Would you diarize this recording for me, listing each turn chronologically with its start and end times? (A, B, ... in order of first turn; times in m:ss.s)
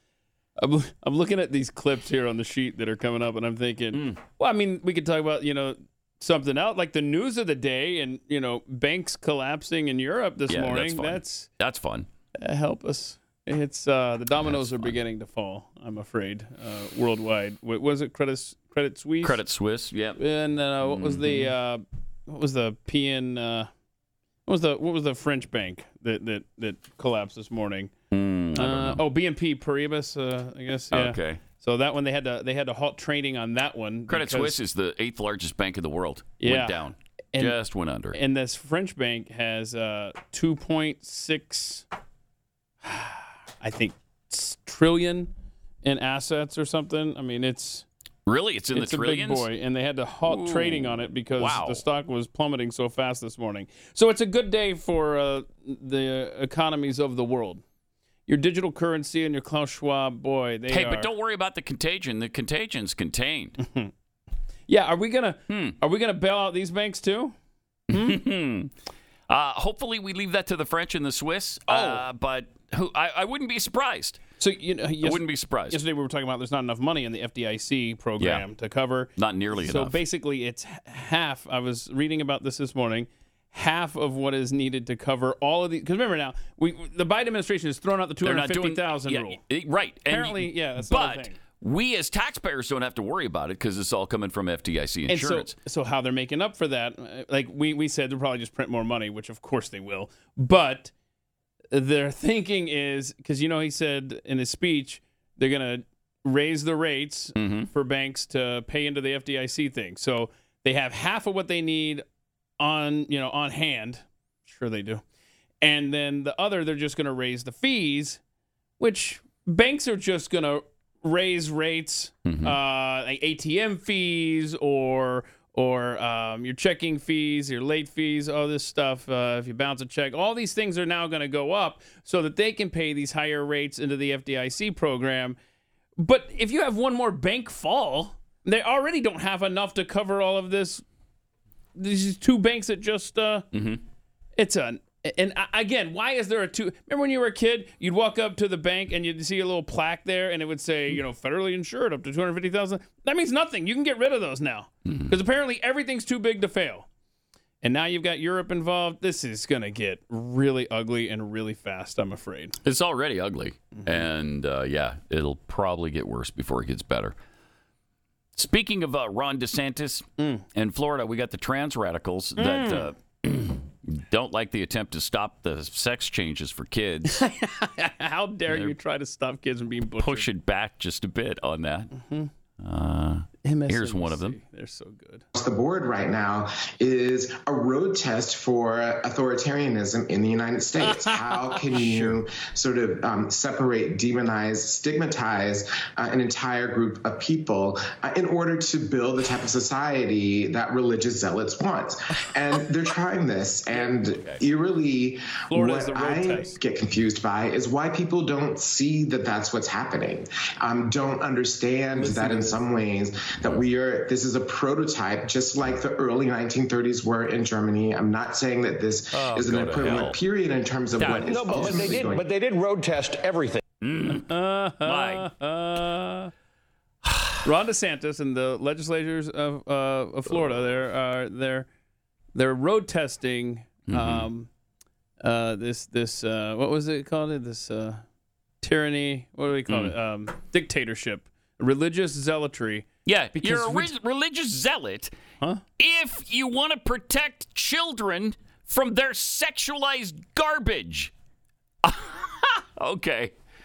0:00.6-0:11.5 A
0:03.9-0:04.2 B
0:10.5-0:12.1 B
0:12.4-0:19.4 A
0:14.4-0:15.0 B
0:19.2-0:20.2 B
0:20.2-0:23.7 A
0:20.8-0:21.5 B
0:24.4-0:27.9 A
0:28.1-0:29.0 B
0:28.6-0:34.6 A
0:30.9-0:31.4 B
0:34.1-0:38.2 B
0:36.4-0:37.6 A
0:38.1-0:41.8 A
0:42.8-0:45.3 A
0:45.8-0:47.8 A
0:48.3-0:49.5 B
0:48.7-0:57.6 A
0:50.2-0:51.8 B
0:58.3-1:01.1 A
1:00.7-1:03.6 B
1:03.6-1:03.9 A
1:04.7-1:07.3 A
1:05.5-1:05.8 B
1:07.9-1:08.7 B
1:07.9-1:08.2 A
1:09.3-1:14.2 B
1:11.7-1:12.0 A
1:14.4-1:29.4 A
1:15.0-1:15.8 B
1:18.2-1:18.4 B
1:19.2-1:20.0 B
1:28.2-1:35.5 B
1:30.1-1:31.4 A
1:35.1-1:40.9 A
1:41.7-1:52.0 A
1:47.4-1:47.7 B
1:52.6-1:55.0 A
1:55.6-1:58.2 A
1:58.8-2:15.4 A
2:02.2-2:02.6 B
2:16.0-2:20.8 A
2:21.8-2:23.5 A
2:23.5-2:23.8 B
2:24.4-2:36.9 A
2:34.8-2:35.1 B
2:37.6-2:42.6 A
2:42.6-2:47.1 B
2:43.8-2:44.0 A
2:48.4-2:57.2 B
2:50.2-2:50.4 A
2:52.4-2:52.9 A
2:57.1-3:00.3 A
2:58.5-2:58.7 B
3:00.0-3:01.9 B
3:02.0-3:02.3 A
3:02.6-3:04.4 B
3:03.4-3:05.2 A
3:05.3-3:42.3 C
3:10.9-3:12.1 A
3:23.7-3:24.4 B
3:25.5-3:26.6 A
3:39.1-3:40.2 B
3:41.0-3:41.9 B
3:41.6-3:43.5 D
3:43.8-3:44.3 B
3:44.1-3:46.3 A
3:44.8-3:45.3 B
3:47.0-3:47.4 B
3:47.4-3:51.7 A
3:52.3-3:54.5 A
3:53.9-3:54.3 B
3:55.2-3:58.0 A
3:58.6-4:03.9 A
3:59.7-3:59.9 B
4:03.0-4:05.1 B
4:05.8-4:11.1 B
4:11.8-4:13.3 B